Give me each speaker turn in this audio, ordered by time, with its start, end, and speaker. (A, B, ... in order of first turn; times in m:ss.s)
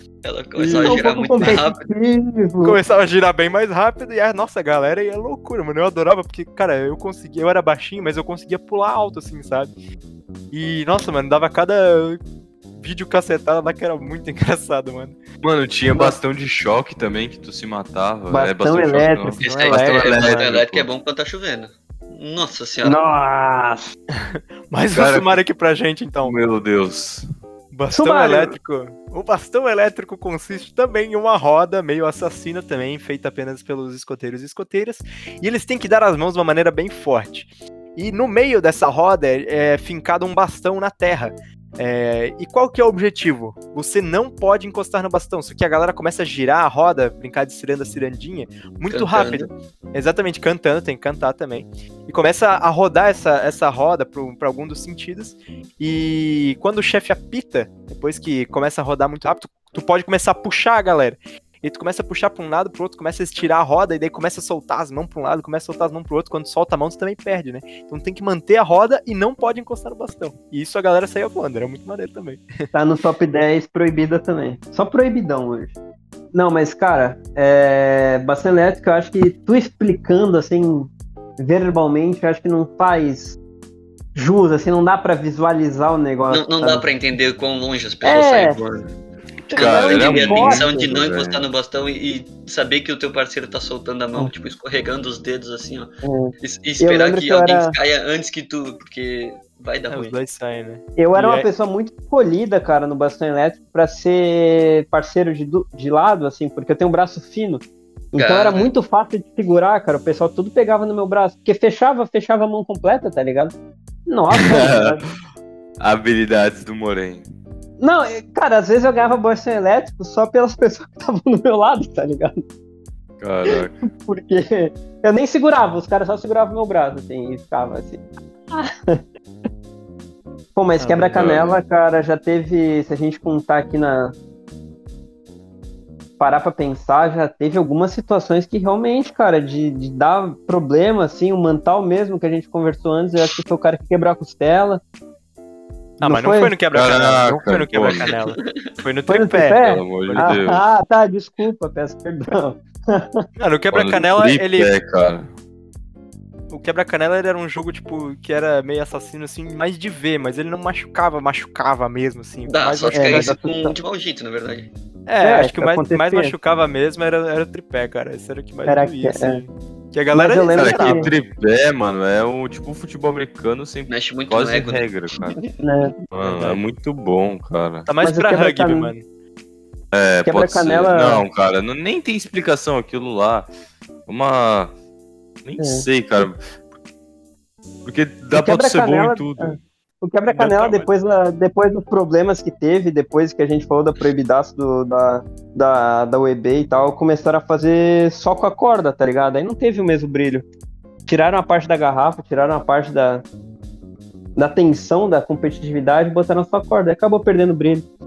0:00.2-0:01.9 A
0:00.6-0:02.8 B
0:00.7-0:01.0 C
0:02.6-0:09.7 C
0:10.5-0:12.2 C
0:12.8-0:15.2 C
0:15.4-0:20.9 D
0:15.9-0:16.2 B
0:18.3-0:19.4 B
0:19.4-0:23.0 A
0:19.4-0:20.5 C
0:22.8-0:23.9 B
0:24.1-0:26.3 C
0:24.9-0:25.4 D
0:26.2-0:27.2 D
0:27.7-1:12.4 C
0:27.9-0:28.6 B
0:48.9-0:49.5 A
1:12.7-1:15.7 B
1:16.3-1:23.4 B
1:24.1-1:26.8 B
1:26.3-1:28.8 A
1:28.0-1:28.6 B
1:29.4-1:35.9 A
1:29.5-1:31.4 D
1:29.5-1:30.9 B
1:36.0-1:37.7 B
1:36.4-1:40.2 A
1:39.9-1:41.5 C
1:41.0-1:47.6 B
1:48.1-1:53.5 B
1:48.2-1:48.7 A
1:54.1-1:55.0 B
1:54.3-1:55.0 D
1:55.8-1:57.2 D
1:57.8-2:02.3 B
2:03.2-2:03.8 D
2:03.5-2:09.0 B
2:10.6-2:14.1 B
2:10.8-2:11.1 C
2:11.0-2:11.6 D
2:16.2-2:24.8 B
2:26.0-2:30.4 C
2:26.0-2:26.5 B
2:26.7-2:28.1 D
2:28.0-2:28.6 A
2:29.1-2:33.2 B
2:29.6-2:30.6 D
2:33.4-2:34.7 C
2:33.7-2:35.3 D
2:36.5-2:43.4 C
2:42.4-2:44.7 A
2:42.9-2:43.7 B
2:45.1-2:51.1 C
2:45.2-2:46.3 B
2:48.7-2:49.4 B
2:50.1-2:51.1 B
2:50.5-2:55.4 D
2:53.9-2:55.6 A
2:55.6-2:56.0 B
2:56.1-2:57.9 D
2:56.2-2:56.6 C
2:57.8-2:59.0 C
2:58.0-2:58.9 B
2:59.9-3:03.5 D
3:00.2-3:01.2 B
3:04.1-3:04.7 D
3:05.4-3:06.4 D
3:05.6-3:05.8 B
3:07.8-3:09.6 D
3:08.3-3:20.4 B
3:10.3-3:10.9 D
3:21.1-3:23.2 B
3:24.4-3:27.8 B